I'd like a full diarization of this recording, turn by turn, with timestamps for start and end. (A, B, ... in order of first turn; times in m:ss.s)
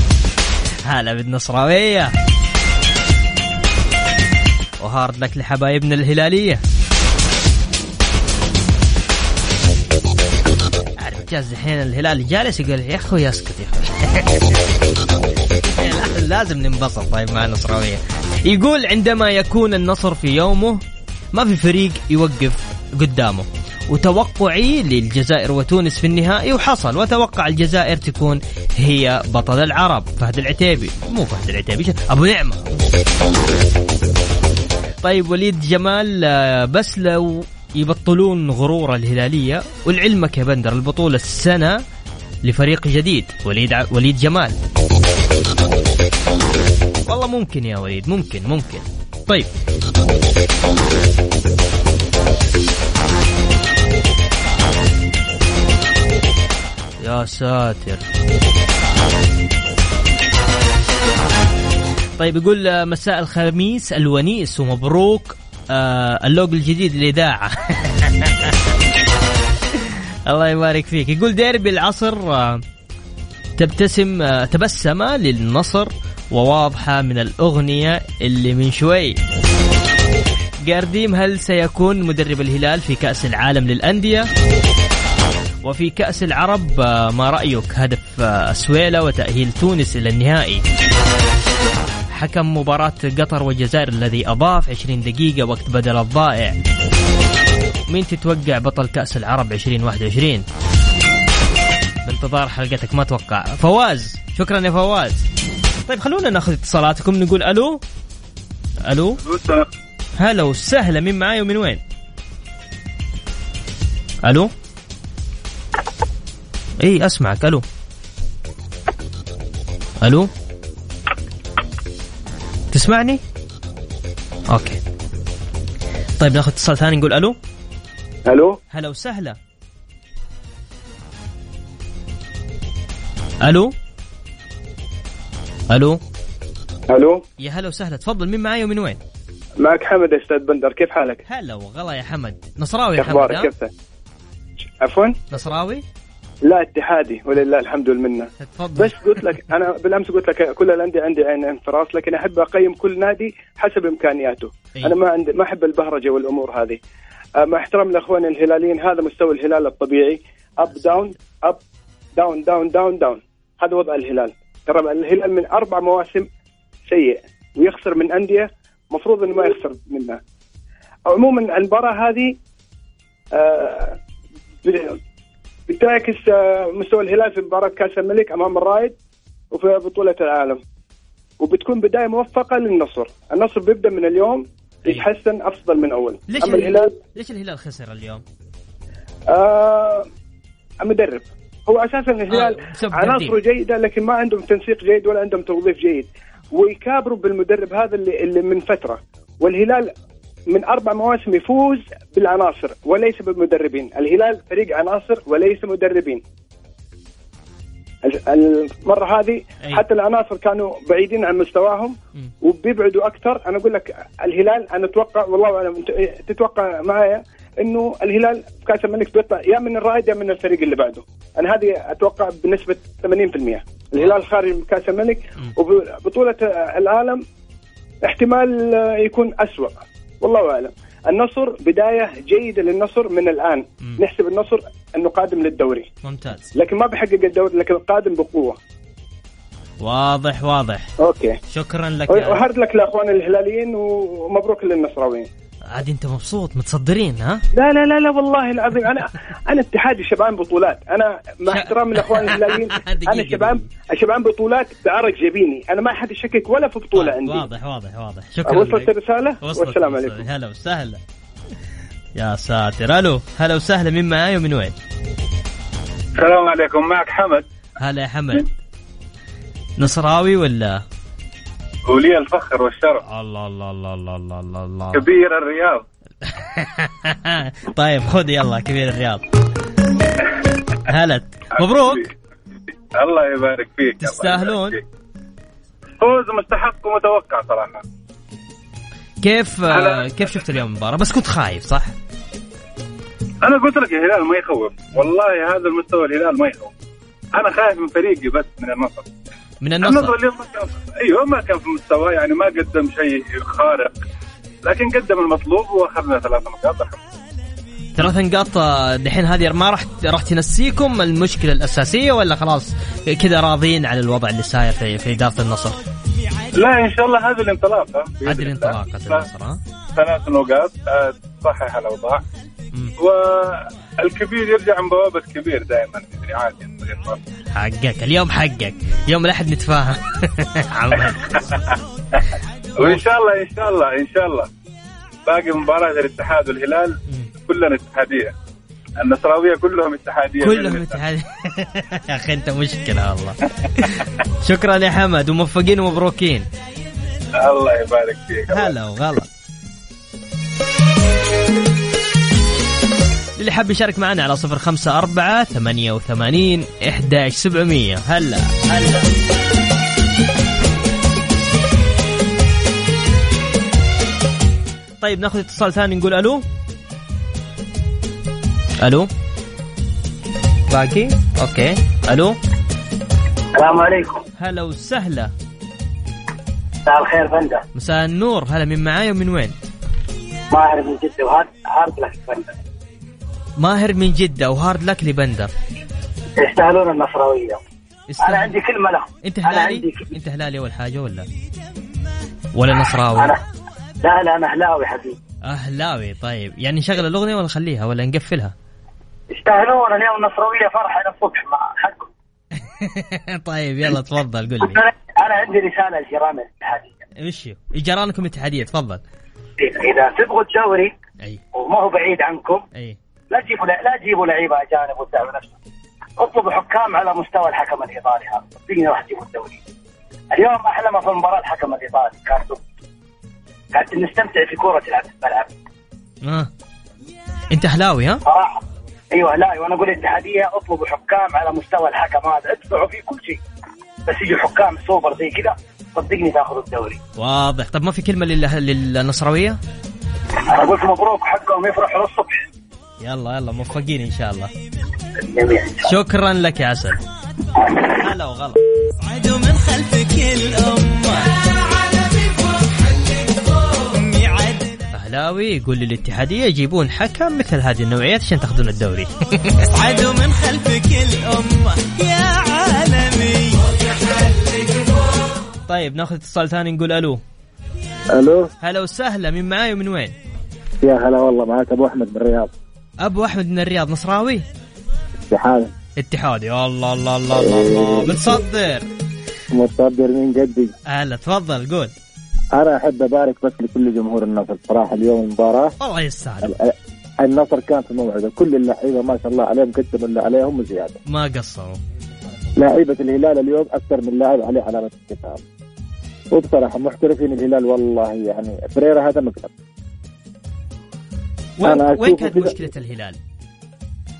0:00.8-0:02.1 A
0:04.8-0:06.6 A
0:11.0-0:14.6 A
0:15.6-0:20.8 A
0:21.3-0:32.6 A
0:35.0-0:41.8 A
0:42.4-0:44.6 A
0:47.1-0:49.5 A
0:57.0-0:58.0 A
1:02.2-1:08.5 A
1:09.8-1:12.6 A
1:13.6-1:19.2 A
1:20.6-1:24.3 A
1:25.6-1:30.6 A
1:32.1-1:36.6 A
1:37.9-1:40.4 A
1:42.0-1:45.2 A
1:45.9-1:47.8 A
1:48.9-1:49.2 A
1:49.2-1:49.7 B
1:50.2-1:51.8 A
1:54.2-1:54.5 A
1:56.8-1:57.6 A
2:00.0-2:00.3 A
2:02.7-2:03.2 A
2:04.5-2:04.8 A
2:06.2-2:07.4 A
2:08.3-2:08.6 C
2:08.7-2:09.4 A
2:13.4-2:13.7 A
2:15.7-2:16.0 A
2:16.9-2:17.2 C
2:17.4-2:19.0 A
2:19.6-2:21.2 C
2:21.2-2:23.5 A
2:23.0-2:23.7 C
2:24.8-2:25.1 C
2:25.3-2:25.8 A
2:26.4-2:36.8 C
2:28.4-2:29.0 A
2:37.4-2:41.6 C
2:40.7-2:41.1 A
2:42.2-2:46.3 C
2:46.9-2:50.2 C
2:51.1-2:52.4 C
2:53.3-2:54.0 C
2:54.6-2:55.0 C
2:55.7-2:59.0 C
2:59.5-3:00.6 C
3:01.4-3:07.0 C
3:06.3-3:08.2 A
3:09.3-3:10.0 C
3:10.8-3:19.9 C
3:12.3-3:13.4 A
3:20.5-3:26.2 C
3:28.0-3:47.2 C
3:48.0-3:55.9 C
3:56.0-3:56.4 A
3:56.5-3:58.6 C
3:59.8-4:00.9 A
4:01.0-4:01.4 C
4:01.5-4:02.4 A
4:02.1-4:05.3 C
4:05.7-4:07.4 A
4:07.5-4:17.4 C
4:11.5-4:13.7 A
4:16.9-4:21.0 A
4:18.4-4:20.2 C
4:22.2-4:24.7 A
4:26.2-4:27.4 B
4:27.8-4:28.5 A
4:29.8-4:30.8 A
4:31.9-4:33.0 B
4:33.1-4:35.0 A
4:34.9-4:35.8 B
4:36.2-4:39.2 A
4:40.9-4:42.1 A
4:41.6-4:42.1 B
4:42.9-4:44.8 B
4:44.0-4:44.8 A
4:46.0-4:47.8 B
4:49.2-4:51.9 A
4:49.7-4:50.2 B
4:53.4-4:56.7 B
4:57.4-4:59.1 B
4:59.6-5:00.1 A
4:59.8-5:04.0 B
5:04.6-5:07.0 B
5:08.0-5:15.8 A
5:16.5-5:19.2 B
5:18.2-5:19.6 A
5:20.0-5:22.2 B
5:23.0-5:27.2 B
5:27.5-5:31.4 A
5:31.5-5:32.2 B
5:32.8-5:34.5 B
5:35.3-5:37.0 B
5:37.5-5:38.3 B
5:39.0-5:41.0 B
5:40.4-5:46.4 A
5:47.4-5:48.7 B
5:48.5-5:49.3 A
5:53.4-5:59.0 A
6:05.0-6:06.4 A
6:08.8-6:09.1 A
6:10.7-6:12.4 A
6:13.5-6:14.2 D
6:14.4-6:15.3 A
6:16.8-6:17.6 D
6:17.7-6:19.5 A
6:20.5-6:22.6 D
6:23.6-6:25.5 A
6:26.4-6:27.6 D
6:28.1-6:28.5 A
6:28.2-6:30.0 D
6:29.2-6:31.3 A
6:32.5-6:33.3 A
6:33.1-6:33.4 D
6:34.0-6:35.2 D
6:35.4-6:38.5 A
6:39.3-6:42.1 D
6:42.6-6:44.8 A
6:44.6-6:46.9 D
6:47.2-6:49.0 A
6:49.6-6:50.9 D
6:51.5-6:52.6 D
6:53.3-6:55.5 D
6:56.2-6:59.6 D
7:00.3-7:02.6 D
7:03.7-7:05.5 D
7:06.2-7:06.5 A
7:07.5-7:08.2 A
7:08.2-7:13.4 D
7:14.0-7:17.0 D
7:17.2-7:19.6 A
7:20.5-7:22.4 D
7:23.0-7:24.5 A
7:25.2-7:25.9 D
7:25.8-7:27.0 A
7:27.6-7:27.9 D
7:28.0-7:28.6 A
7:29.2-7:31.3 E
7:30.2-7:31.1 A
7:33.8-7:34.6 E
7:34.9-7:39.8 A
7:39.8-7:43.6 E
7:45.7-7:47.2 A
7:48.1-7:48.5 F
7:48.6-7:50.1 A
7:50.8-7:52.5 F
7:53.0-7:54.4 A
7:55.3-7:55.7 F
7:56.0-7:58.9 A
7:57.4-7:58.4 F
7:59.5-8:00.7 F
8:00.9-8:01.9 A
8:02.5-8:05.7 F
8:05.8-8:06.5 A
8:06.4-8:11.0 F
8:11.1-8:11.8 A
8:12.6-8:15.4 F
8:16.3-8:19.5 F
8:21.6-8:23.2 A
8:21.6-8:22.6 F